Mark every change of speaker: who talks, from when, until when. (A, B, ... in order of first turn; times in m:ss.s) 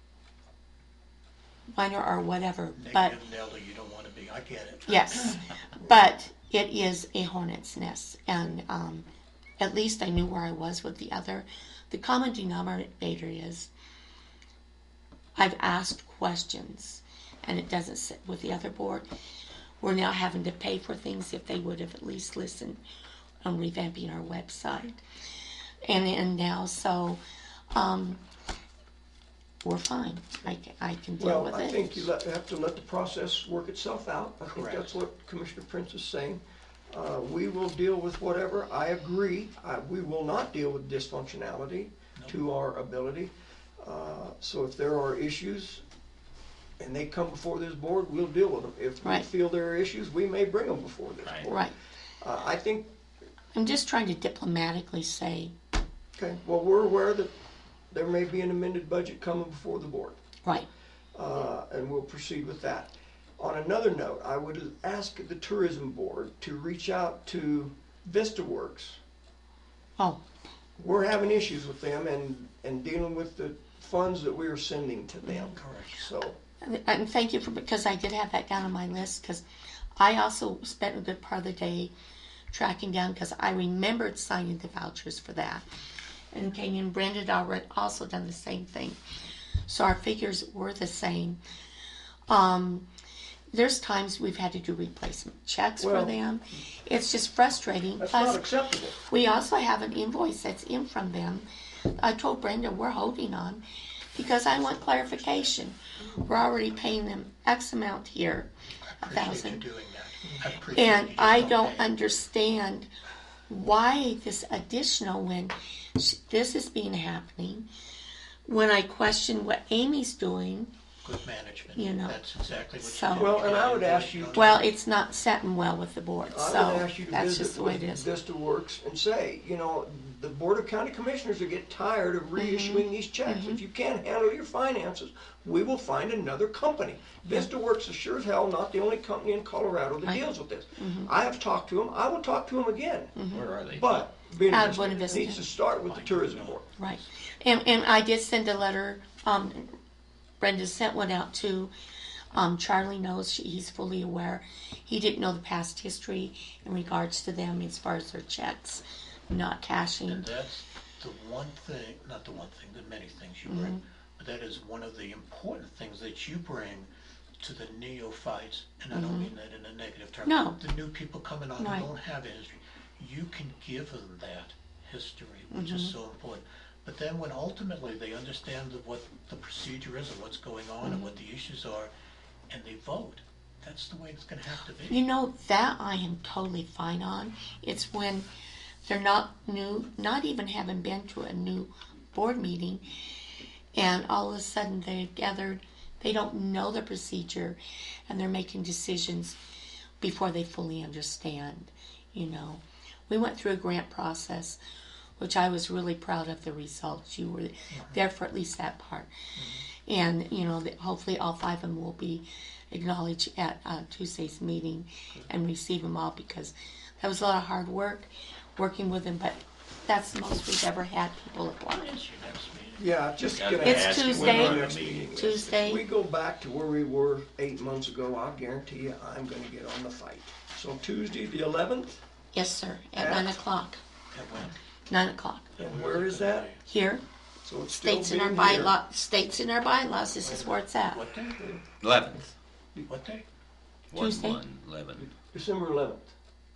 0:01.7-0:03.2 A
0:02.8-0:05.5 B
0:04.9-0:09.0 A
0:09.6-0:13.7 A
0:15.4-0:19.1 A
0:19.8-0:22.8 A
0:23.4-0:25.0 A
0:25.8-0:27.2 A
0:27.7-0:28.2 A
0:29.6-0:32.1 A
0:31.2-0:45.8 C
0:34.5-0:34.9 B
0:46.8-0:51.6 C
0:51.2-0:51.5 D
0:51.4-0:51.7 A
0:52.2-0:52.9 C
0:53.5-0:55.5 A
0:56.2-0:57.3 C
0:57.9-1:00.2 C
1:01.1-1:09.0 C
1:10.8-1:16.4 C
1:15.5-1:16.1 B
1:16.6-1:19.4 A
1:20.0-1:21.9 A
1:22.5-1:25.6 A
1:26.3-1:29.0 A
1:29.6-1:31.4 A
1:32.3-1:32.9 A
1:33.5-1:38.4 A
1:35.8-1:36.1 C
1:38.0-1:39.0 C
1:39.0-1:43.6 A
1:44.1-1:48.5 A
1:48.9-1:51.9 B
1:49.0-1:49.6 A
1:50.7-1:52.9 A
1:53.5-1:57.7 A
1:58.5-2:00.7 A
2:01.0-2:04.6 B
2:01.8-2:02.2 A
2:02.8-2:03.4 A
2:03.2-2:04.6 C
2:04.3-2:08.0 A
2:06.3-2:23.2 C
2:12.4-2:13.6 A
2:20.8-2:21.1 A
2:23.2-2:23.5 A
2:23.3-2:24.1 D
2:23.7-2:26.7 C
2:24.5-2:25.4 A
2:25.2-2:26.8 B
2:26.8-2:29.8 A
2:30.4-2:31.7 A
2:32.3-2:40.3 A
2:40.1-2:46.9 B
2:43.5-2:43.8 A
2:47.4-3:01.9 B
2:48.9-2:49.3 A
2:50.2-2:50.6 A
2:51.6-2:51.9 A
2:55.5-2:55.9 A
3:00.8-3:01.1 A
3:02.5-3:05.0 B
3:04.9-3:08.3 A
3:08.8-3:12.9 A
3:13.8-3:19.4 A
3:20.0-3:24.6 A
3:25.2-3:29.1 A
3:27.7-3:28.0 B
3:29.4-3:29.6 B
3:29.7-3:41.9 A
3:41.7-3:42.8 B
3:42.8-3:52.0 C
3:43.3-3:45.0 D
3:43.6-3:45.8 A
3:52.3-3:53.8 A
3:53.0-3:53.4 C
3:54.1-3:54.6 B
3:54.9-3:55.5 A
3:55.6-3:56.6 B
3:55.6-3:56.5 C
3:56.6-3:57.0 A
3:57.4-3:58.8 C
3:57.7-4:01.0 A
4:00.2-4:01.4 B
4:01.8-4:02.3 D
4:02.9-4:03.2 B
4:03.9-4:05.1 D
4:03.9-4:04.4 A
4:05.0-4:06.1 C